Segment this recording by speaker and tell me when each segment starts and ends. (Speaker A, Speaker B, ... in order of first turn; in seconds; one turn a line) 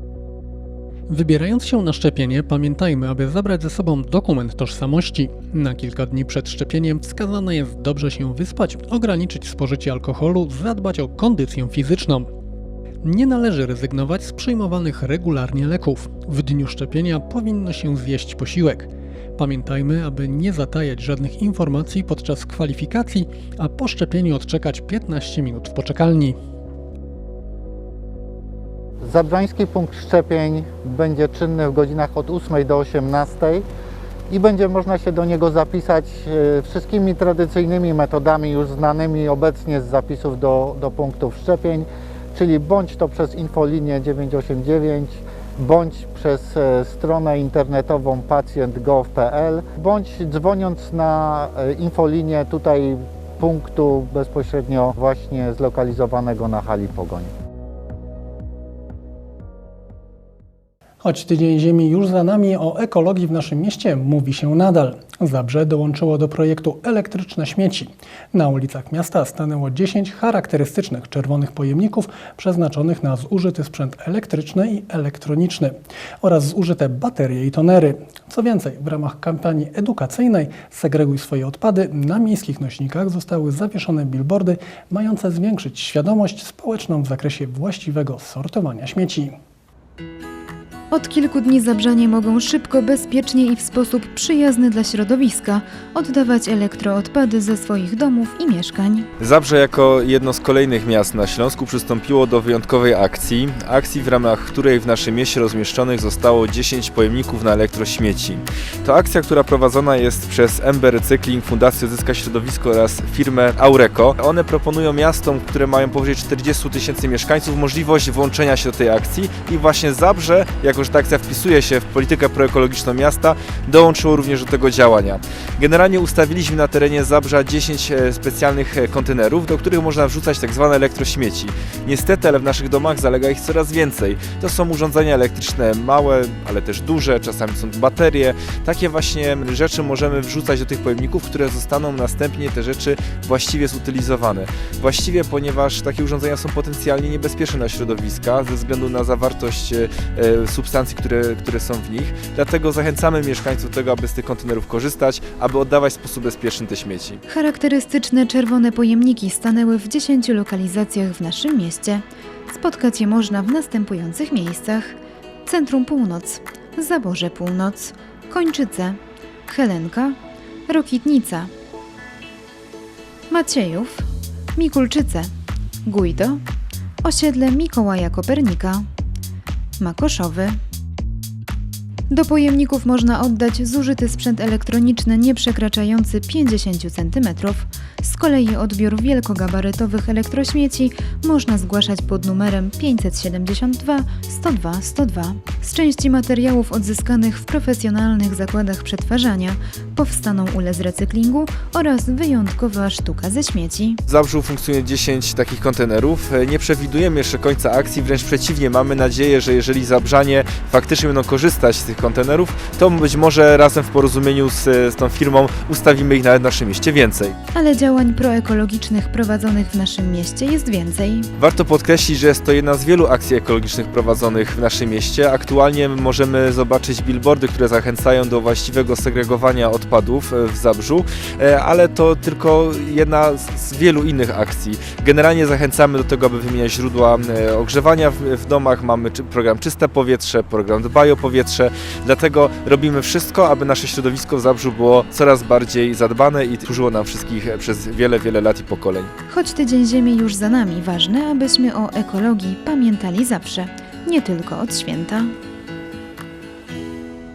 Speaker A: 1.1-12.3
Speaker A: 13.0-26.4
Speaker B: 29.0-33.7
Speaker B: 34.3-57.3
Speaker A: 61.0-89.3
Speaker C: 90.9-99.1
Speaker D: 99.2-157.2
Speaker C: 157.3-171.5
Speaker C: 173.3-175.3
Speaker C: 175.8-176.4
Speaker C: 177.0-178.8
Speaker C: 179.8-180.6
Speaker C: 182.1-204.0
Speaker D: 204.1-217.3
Speaker C: 217.5-221.3
Speaker D: 221.4-249.1
Speaker C: 249.3-255.3